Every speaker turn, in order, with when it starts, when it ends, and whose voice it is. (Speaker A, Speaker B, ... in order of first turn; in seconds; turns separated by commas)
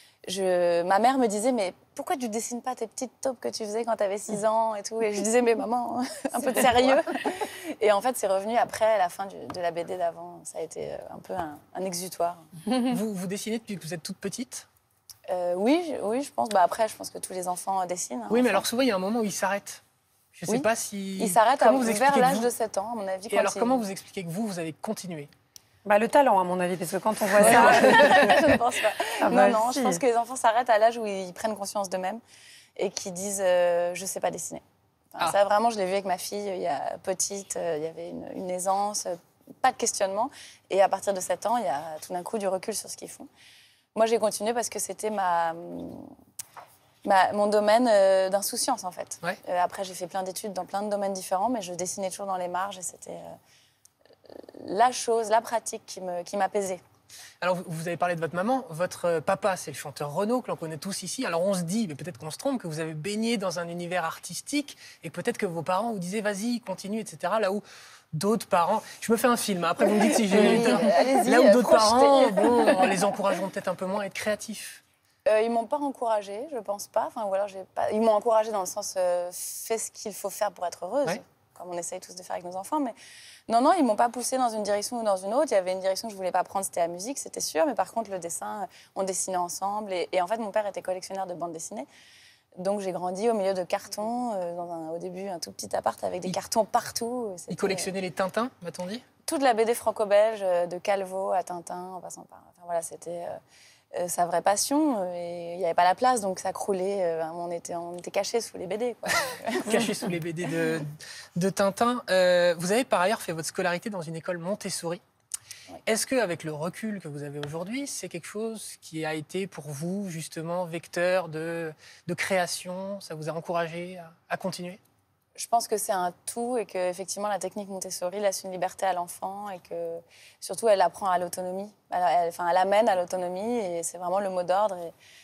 Speaker A: 0.2-12.4, Speaker B: 12.8-14.7, Speaker A: 15.3-18.6, Speaker B: 18.3-19.8, Speaker B: 20.3-22.5, Speaker A: 21.2-23.9, Speaker B: 23.3-25.3, Speaker C: 25.9-28.4, Speaker B: 27.4-28.4, Speaker A: 27.4-32.2, Speaker C: 29.2-30.0, Speaker A: 32.8-34.6, Speaker A: 35.1-43.3, Speaker A: 43.9-46.1, Speaker A: 47.0-53.3, Speaker A: 54.3-56.8, Speaker B: 57.4-74.8, Speaker A: 70.3-73.0, Speaker A: 75.2-83.0, Speaker A: 83.5-91.9, Speaker A: 92.6-97.9, Speaker B: 97.5-99.0, Speaker A: 99.3-103.4, Speaker A: 103.9-109.8, Speaker B: 109.6-115.0, Speaker B: 115.8-124.8, Speaker A: 125.3-134.9